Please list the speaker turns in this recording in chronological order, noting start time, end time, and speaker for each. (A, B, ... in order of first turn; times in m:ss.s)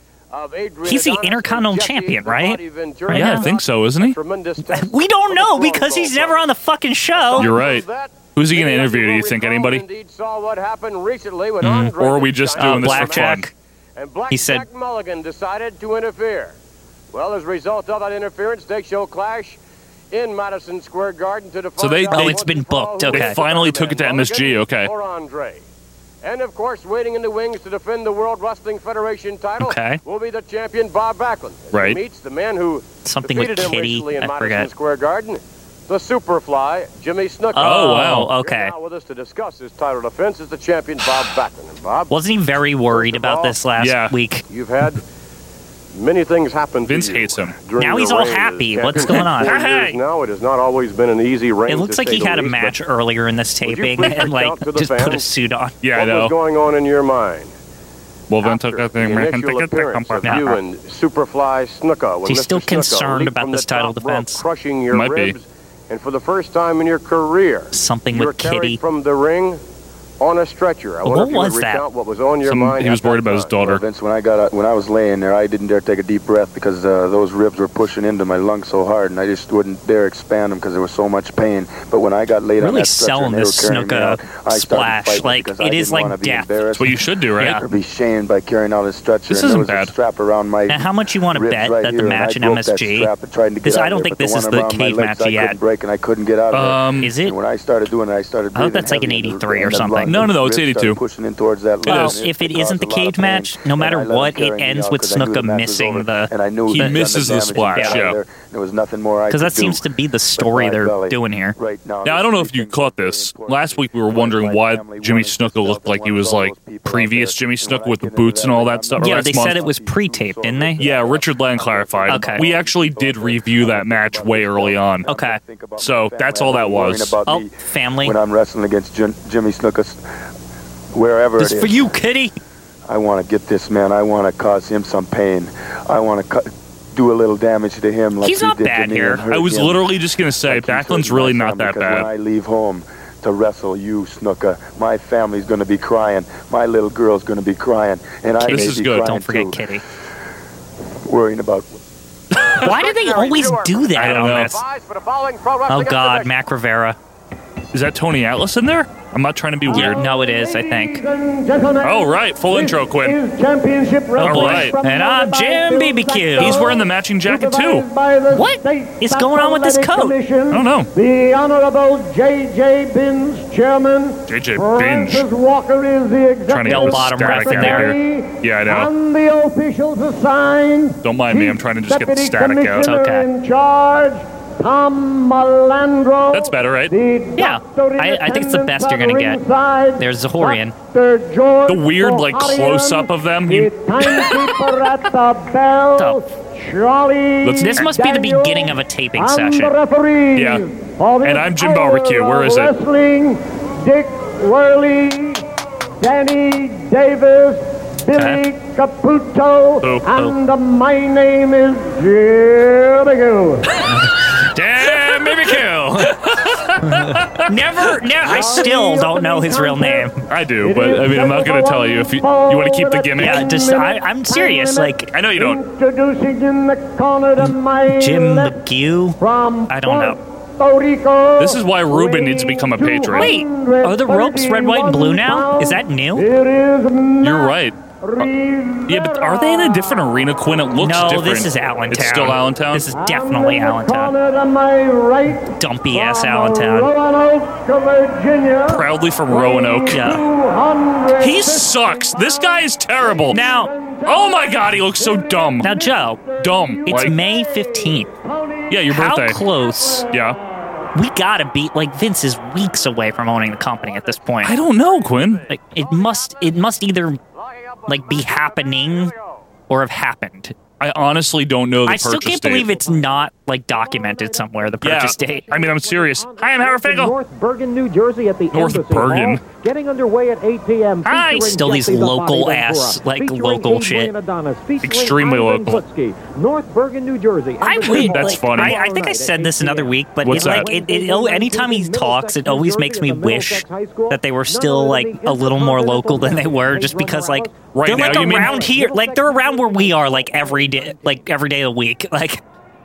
0:00.3-0:06.5 A
0:00.8-0:03.5 B
0:03.1-0:04.2 C
0:04.6-0:07.5 B
0:07.2-0:13.4 A
0:07.4-0:09.8 C
0:11.6-0:11.9 B
0:11.7-0:13.5 C
0:12.6-0:13.5 B
0:14.0-0:16.6 A
0:14.3-0:14.6 B
0:17.1-0:19.6 A
0:20.1-0:25.6 A
0:21.8-0:22.4 C
0:22.1-0:23.4 B
0:23.1-0:24.9 C
0:26.2-0:42.2 A
0:29.6-0:30.0 B
0:31.7-0:32.0 C
0:33.0-0:34.7 B
0:37.5-0:38.7 B
0:37.6-0:38.3 C
0:42.1-0:44.4 B
0:42.9-0:43.6 A
0:43.8-0:44.2 C
0:44.5-0:45.0 A
0:45.9-0:52.8 A
0:46.8-0:47.6 C
0:47.8-0:49.6 B
0:49.0-0:50.0 C
0:51.7-0:55.8 B
0:53.6-0:55.3 A
0:55.8-0:56.3 C
0:55.9-0:57.5 A
0:58.3-1:00.6 C
0:58.4-1:09.6 A
1:00.2-1:00.5 B
1:02.3-1:04.4 B
1:04.9-1:05.4 C
1:07.7-1:08.8 B
1:10.2-1:13.7 A
1:11.0-1:11.8 B
1:12.4-1:13.8 C
1:13.6-1:49.8 D
1:22.6-1:26.5 B
1:26.7-1:27.6 C
1:27.4-1:27.6 B
1:29.3-1:29.9 C
1:30.7-1:33.1 B
1:33.6-1:35.6 B
1:36.5-1:37.1 C
1:37.0-1:37.4 B
1:38.5-1:40.3 B
1:40.0-1:41.0 C
1:41.8-1:42.2 C
1:41.9-1:47.0 B
1:46.7-1:48.2 C
1:47.7-1:48.0 B
1:49.3-1:51.6 B
1:50.4-2:10.0 D
1:52.0-1:59.8 C
1:59.0-2:00.9 B
2:00.8-2:05.1 C
2:02.1-2:02.5 B
2:05.1-2:05.4 B
2:05.8-2:07.2 C
2:07.3-2:08.2 B
2:10.9-2:12.0 D
2:11.4-2:12.3 B
2:12.9-2:29.7 D
2:18.2-2:19.2 B
2:19.3-2:22.1 C
2:28.4-2:29.8 B
2:28.5-2:29.1 C
2:31.1-2:31.7 D
2:32.4-2:32.7 C
2:32.5-2:36.3 A
2:32.6-2:34.6 B
2:34.0-2:34.6 C
2:35.7-2:37.0 B
2:37.7-2:40.0 C
2:39.7-2:41.0 B
2:39.7-3:25.5 E
2:41.8-2:43.2 C
2:44.2-2:46.7 B
2:44.2-2:44.8 C
2:46.4-2:47.9 C
2:48.3-2:50.2 B
2:50.5-2:50.9 C
2:54.3-2:55.3 C
2:56.5-2:58.9 C
2:56.7-2:57.9 B
3:01.0-3:02.9 C
3:02.8-3:03.3 B
3:06.3-3:06.9 C
3:07.4-3:09.4 B
3:10.0-3:10.8 B
3:11.7-3:14.9 C
3:16.0-3:16.2 B
3:17.4-3:17.9 C
3:17.6-3:19.7 B
3:20.4-3:20.6 C
3:21.2-3:22.7 C
3:26.0-3:33.7 E
3:28.1-3:28.4 B
3:29.8-3:30.1 C
3:33.8-3:38.7 C
3:33.9-3:36.2 B
3:36.8-3:40.2 B
3:38.2-3:48.6 E
3:40.3-3:43.5 C
3:43.2-3:45.1 B
3:45.1-3:45.6 C
3:47.4-3:50.2 B
3:49.2-3:59.9 E
3:51.4-3:53.3 C
3:53.1-3:56.3 B
3:57.2-3:58.3 C
3:58.9-4:02.9 C
4:00.8-4:04.1 B
4:02.9-4:18.9 E
4:05.5-4:06.9 B
4:08.7-4:10.2 C
4:09.9-4:10.2 B
4:11.2-4:13.4 C
4:13.3-4:13.7 B
4:14.0-4:15.8 C
4:15.6-4:16.2 B
4:16.4-4:17.2 C
4:16.9-4:18.1 B
4:18.7-4:19.4 C
4:18.9-4:20.1 B
4:19.5-4:20.3 E
4:20.1-4:20.4 C
4:20.9-4:24.6 B
4:23.6-4:26.4 A
4:24.4-4:25.5 C
4:25.5-4:27.2 B
4:27.3-4:29.4 A
4:27.9-4:29.1 B
4:29.7-4:30.6 B
4:30.8-4:32.7 C
4:31.9-4:35.5 B
4:32.8-4:33.2 F
4:33.8-4:34.3 F
4:34.8-4:37.2 C
4:35.5-5:01.3 F
4:35.6-4:36.3 A
4:38.5-4:39.4 C
4:41.0-4:44.1 B
4:44.8-4:45.8 C
4:47.6-5:02.4 B
4:47.8-4:48.8 C
4:50.2-4:50.7 C
4:57.7-4:58.7 C